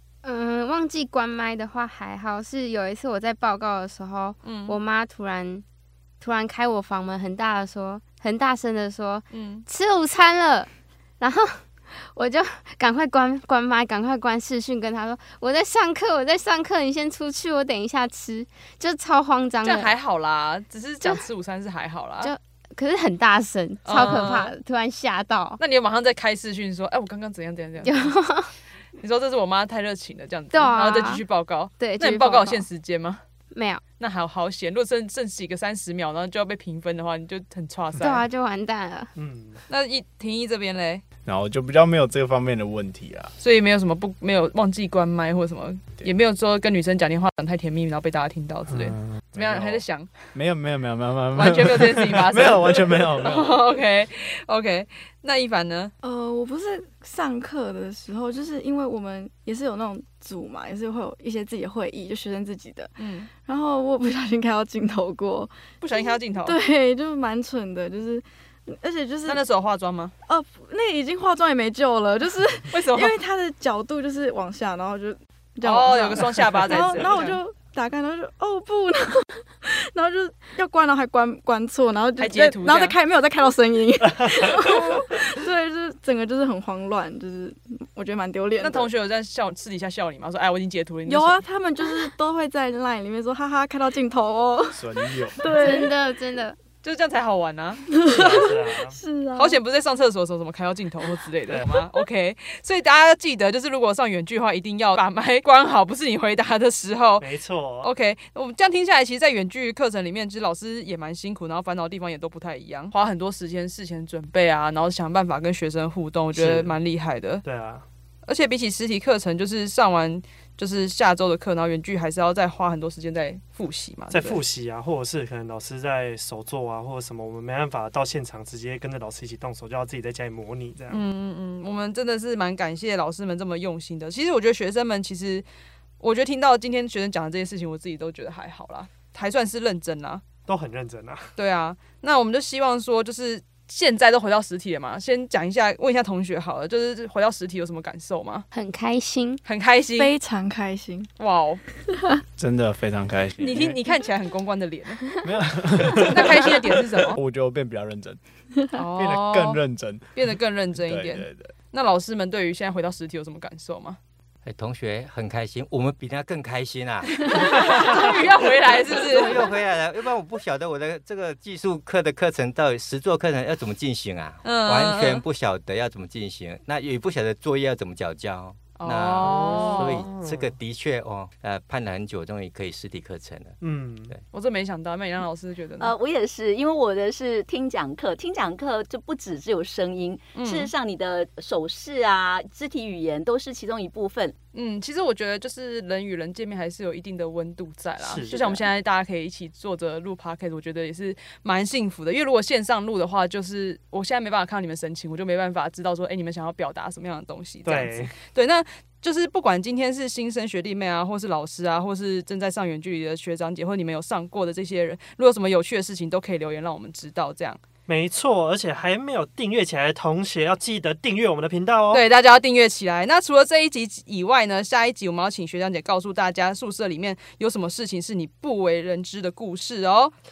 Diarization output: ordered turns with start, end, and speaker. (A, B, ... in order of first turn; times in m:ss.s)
0:00.2-0:05.6 A
0:04.4-0:04.8 B
0:06.2-0:10.7 A
0:09.3-0:09.6 B
0:11.2-0:19.9 A
0:19.6-0:22.3 B
0:22.2-0:25.6 A
0:23.8-0:24.5 B
0:25.6-0:28.1 B
0:27.8-0:28.5 A
0:29.0-0:33.2 B
0:30.5-0:31.2 A
0:31.8-0:32.6 A
0:33.5-0:33.8 A
0:34.0-0:38.2 B
0:38.0-0:39.1 A
0:39.2-0:39.6 C
0:39.7-0:41.0 B
0:41.2-0:43.3 D
0:43.4-0:50.1 B
0:48.7-0:49.8 D
0:50.3-0:53.6 D
0:51.3-0:55.9 B
0:56.0-1:09.4 E
1:03.0-1:03.3 B
1:05.8-1:06.6 B
1:09.2-1:10.1 B
1:10.3-1:28.9 E
1:12.7-1:13.2 B
1:15.6-1:17.4 B
1:22.2-1:23.0 B
1:28.6-1:31.4 B
1:31.0-1:35.9 E
1:34.7-1:35.4 D
1:35.5-1:36.6 A
1:36.8-1:37.8 B
1:37.8-1:39.6 E
1:38.1-1:39.0 C
1:39.3-1:47.2 B
1:41.5-1:41.8 C
1:47.2-1:47.9 C
1:47.8-1:57.4 B
1:56.3-1:56.7 C
1:57.4-1:57.8 C
1:58.2-2:04.4 B
2:04.1-2:11.0 C
2:10.9-2:15.4 B
2:16.0-2:20.2 B
2:20.5-2:21.3 C
2:21.4-2:28.4 B
2:28.5-2:29.4 A
2:29.4-2:30.2 B
2:29.9-2:31.1 E
2:31.2-2:31.6 B
2:32.4-2:33.8 D
2:33.4-2:35.0 B
2:35.2-2:38.2 D
2:36.0-2:37.2 B
2:38.7-2:39.6 B
2:38.9-2:40.1 D
2:40.1-2:44.0 B
2:40.7-2:41.5 D
2:44.4-2:48.2 F
2:47.2-2:49.5 B
2:48.8-3:04.2 F
2:54.4-2:55.2 B
2:58.8-3:00.1 B
2:59.2-3:00.6 C
3:03.6-3:04.1 C
3:04.3-3:05.9 B
3:05.8-3:14.3 G
3:10.3-3:10.7 B
3:14.5-3:37.6 B
3:18.0-3:18.7 C
3:27.6-3:28.2 C
3:37.9-3:42.0 C
3:41.9-3:50.1 B